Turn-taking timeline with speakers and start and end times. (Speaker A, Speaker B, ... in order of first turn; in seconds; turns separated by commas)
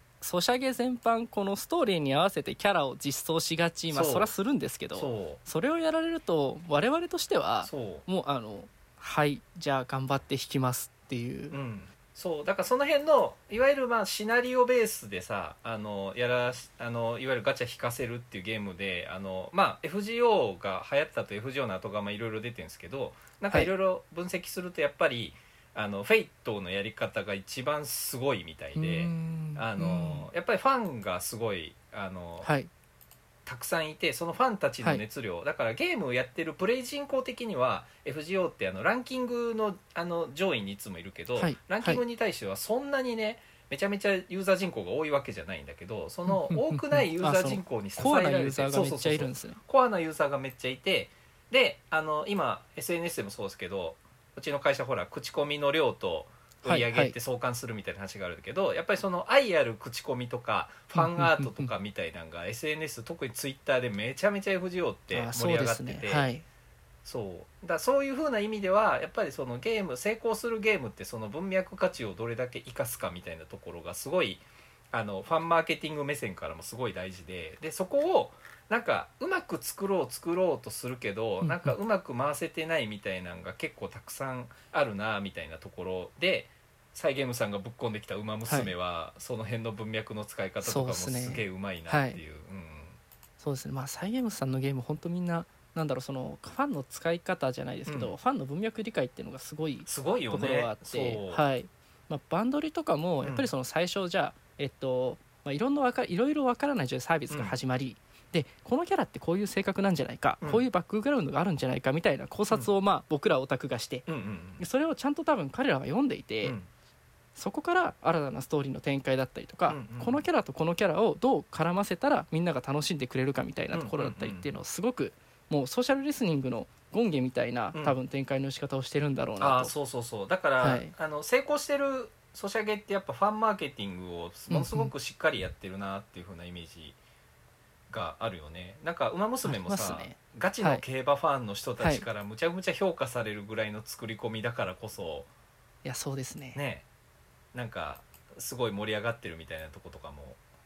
Speaker A: 0.2-11.6, Speaker B: 3.9-4.3, Speaker B: 4.9-5.4, Speaker B: 7.7-8.1, Speaker B: 11.5-32.5, Speaker A: 28.8-30.3, Speaker A: 32.4-32.7, Speaker B: 33.5-66.3, Speaker A: 41.4-42.0, Speaker A: 46.3-49.6, Speaker A: 56.6-57.1, Speaker A: 60.9-61.7, Speaker A: 65.1-66.4, Speaker B: 67.0-93.0, Speaker A: 81.4-81.8, Speaker A: 90.6-92.2, Speaker A: 93.4-114.1, Speaker B: 97.9-98.1, Speaker B: 99.9-101.4, Speaker B: 103.2-103.5, Speaker B: 107.3-107.6, Speaker B: 114.1-114.6, Speaker A: 114.6-116.6, Speaker A: 117.3-129.7, Speaker B: 119.7-120.2, Speaker B: 123.7-124.5, Speaker B: 129.4-137.0, Speaker A: 130.6-130.9, Speaker A: 134.5-134.9, Speaker B: 137.9-145.3, Speaker A: 139.4-140.8, Speaker A: 141.8-142.1, Speaker A: 145.8-146.6, Speaker B: 146.6-146.8, Speaker B: 147.5-150.4